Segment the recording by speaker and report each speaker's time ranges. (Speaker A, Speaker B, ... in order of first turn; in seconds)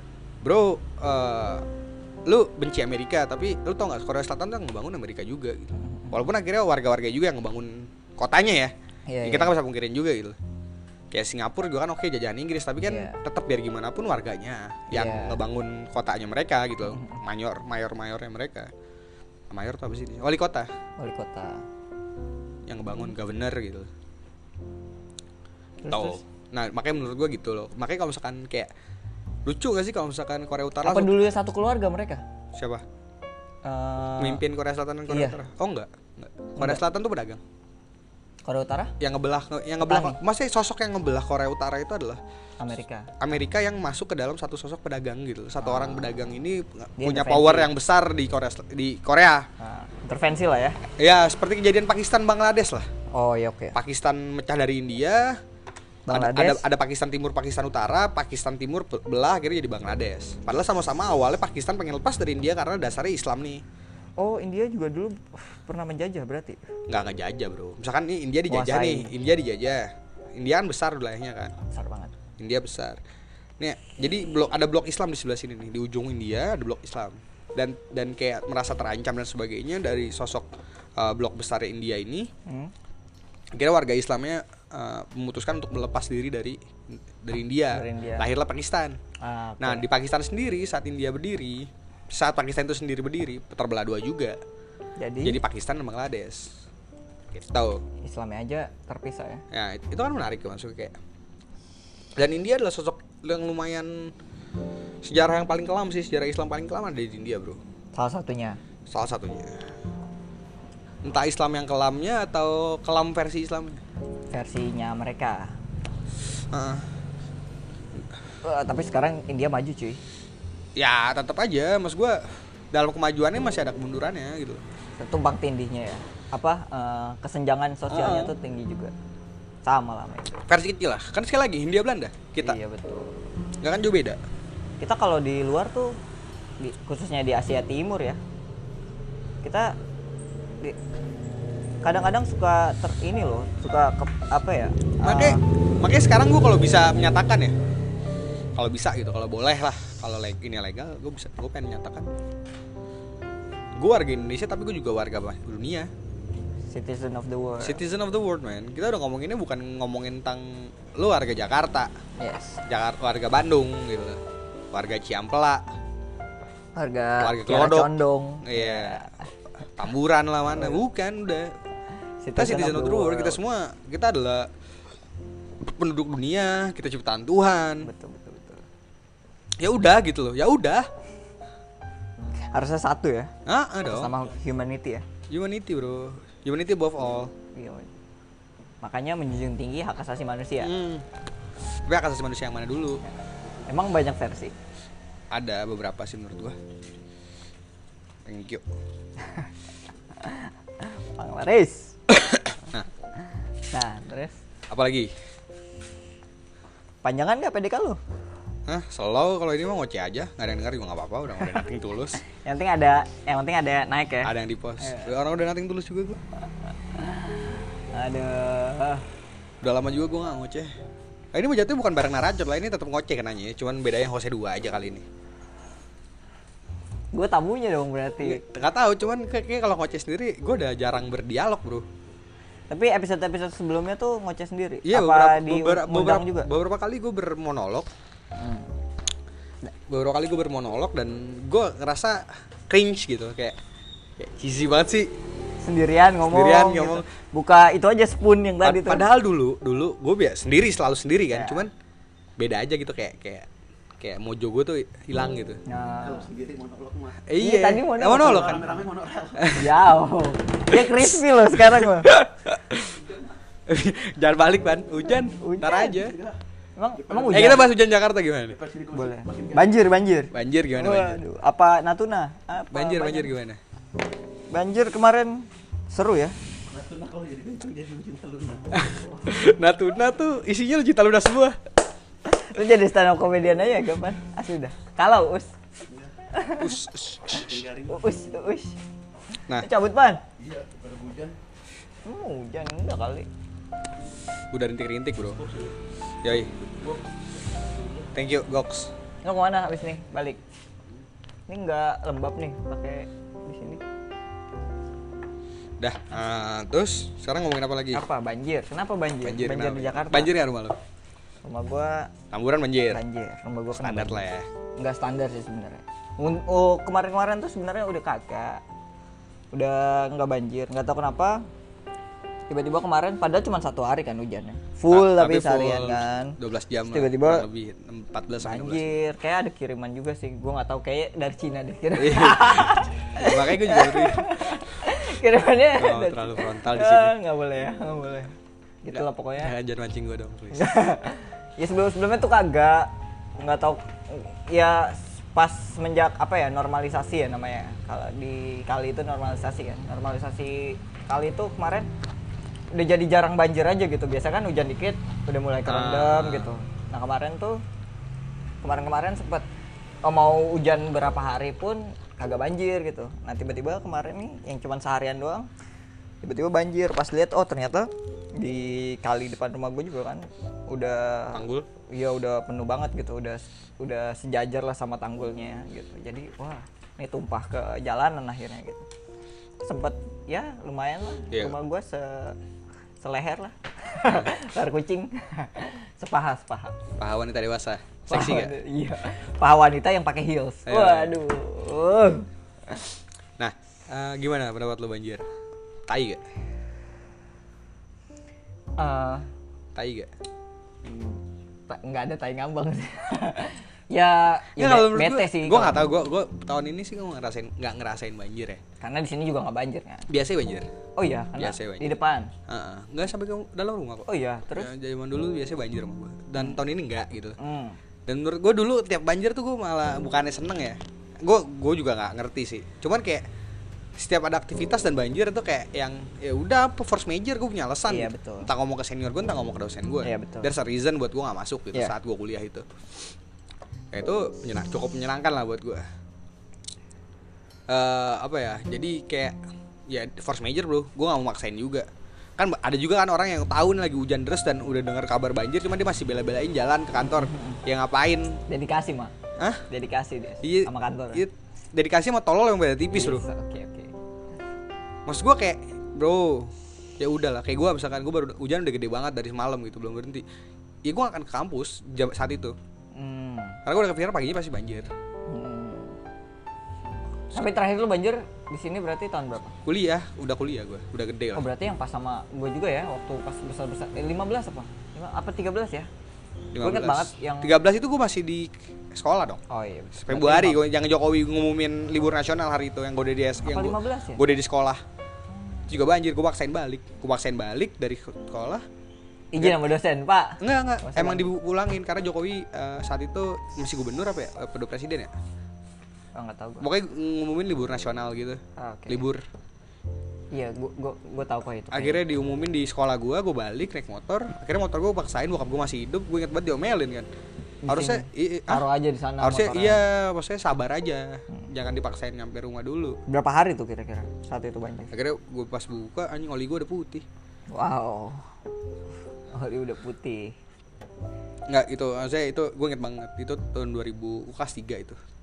Speaker A: 0.4-1.6, 2.2-10.4, 11.1-18.7, 19.5-20.7, 22.7-23.9, 25.9-28.7, 29.4-31.2, 32.5-32.8, 34.2-37.4, 39.0-42.2, 43.2-49.5, 51.0-52.9, 53.7-55.4, 56.1-63.6, 66.9-71.5, 72.4-73.0, 73.6-82.3, 83.5-89.0, 89.6-94.4, 95.2-96.5, 97.3-97.8, 99.5-100.9, 102.2-104.1, 105.0-107.6, 108.9-109.6, 111.0-113.8, 116.5-116.9, 120.8-124.6, 127.9-128.3, 130.5-132.6, 133.6-134.2, 145.0-147.5, 148.6-152.1, 153.8-155.9, 157.6-161.9, 162.7-164.2, 164.7-165.6, 167.2-169.1, 169.6-171.5, 172.3-174.5, 175.6-177.9, 179.6-180.9, 183.4-184.1, 185.3-187.3, 190.6-191.1, 191.8-193.0, 195.3-196.6, 198.2-198.6, 202.1-202.9, 204.7-205.1, 208.7-212.2, 214.2-216.2, 219.6-220.7, 221.3-225.0, 228.2-231.9, 234.8-237.9, 239.9-243.6, 244.2-245.1, 246.2-247.1, 248.6-251.7, 252.4-253.5, 254.0-255.6, 257.2-258.7, 259.4-259.7, 260.7-263.0, 263.7-266.2, 267.3-268.6, 270.3-271.2, 272.7-273.6, 278.7-281.6, 286.6-287.6, 294.5-295.4, 296.2-296.5, 298.1-298.9, 305.8-308.0, 309.2-310.8, 312.3-313.0, 313.7-314.4, 324.9-328.9, 331.9-334.6, 335.8-337.1, 338.9-340.7, 355.6-356.5, 371.3-371.6, 381.3-381.6, 387.0-388.6, 390.6-391.2, 393.4-395.2, 395.9-396.2, 399.7-400.1, 404.6-408.6, 410.1-410.7, 411.4-411.9, 412.5-417.4, 418.1-423.2, 424.0-432.7, 433.9-435.8, 437.7-439.3, 439.9-441.9, 442.4-448.4, 449.4-449.6, 450.4-453.2, 455.1-460.2, 460.8-462.6, 463.6-464.9, 469.6-471.4, 476.5-479.4, 480.0-484.8, 485.7-488.6, 489.4-489.7, 490.4-495.1, 496.6-499.2, 501.7-507.1, 507.7-508.6, 509.2-513.0, 514.9-517.0, 521.5-525.0
Speaker B: 5.8-6.2, 9.1-9.5, 12.8-13.2, 14.9-15.4, 16.9-17.2, 21.0-21.6, 25.8-26.2, 30.8-32.2, 33.6-34.4, 35.1-35.4, 36.6-36.8, 38.4-38.9, 39.8-40.2, 42.6-43.1, 45.6-46.1, 47.0-47.7, 49.6-50.8, 53.1-53.8, 56.0-56.6, 64.2-66.6, 68.5-69.1, 71.7-72.1, 82.5-82.7, 87.7-88.3, 89.2-89.9, 95.0-95.4, 98.0-99.4, 107.9-108.6, 114.3-115.5, 118.4-120.0, 125.0-128.9, 129.6-130.4, 132.4-133.2, 134.8-136.0, 136.6-138.2, 139.4-139.7, 141.8-145.4, 156.7-157.8, 162.2-162.6, 166.8-169.2, 172.2-173.4, 177.8-178.6, 182.5-183.3, 183.9-185.0, 187.5-187.9, 188.8-190.7, 193.7-194.6, 199.2-199.5, 200.2-202.0, 203.7-204.4, 207.0-208.0, 212.3-215.1, 216.9-219.0, 227.1-228.4, 232.7-236.5, 238.4-238.7, 245.6-249.1, 251.3-251.7, 255.7-256.3, 257.4-258.7, 259.5-262.2, 265.4-266.0, 266.8-267.7, 268.9-273.3, 274.5-276.4, 282.2-285.5, 286.3-286.8, 287.9-288.8, 289.6-290.2, 292.0-293.3, 299.2-300.4, 301.5-303.8, 307.9-310.3, 311.4-312.1, 312.9-314.2, 314.8-318.6, 319.5-321.4, 322.5-327.5, 328.4-339.5, 340.5-351.9, 352.7-357.6, 358.6-359.4, 360.0-365.5, 366.2-378.9, 379.6-382.4, 383.0-386.8, 388.1-392.9, 398.8-399.3, 400.9-401.1, 401.7-405.9, 408.8-410.1, 411.0-412.3, 414.1-414.7, 417.4-417.8, 427.9-428.5, 430.0-430.5, 447.0-447.6, 448.5-449.1, 449.7-451.2, 452.9-453.9, 462.9-463.6, 465.3-466.0, 467.3-469.6, 471.3-475.9, 476.6-477.6, 479.5-480.6, 483.4-484.2, 485.4-485.6, 489.3-491.3, 496.1-496.7, 498.6-499.1, 500.3-502.0, 507.6-509.8, 513.1-514.9, 517.5-518.2, 519.3-520.3
Speaker C: 256.0-257.2, 258.1-259.5, 262.9-263.3, 265.9-266.4, 267.0-267.7, 268.5-269.8, 276.7-278.8, 287.3-288.0, 290.4-291.4, 295.4-295.7, 296.6-298.1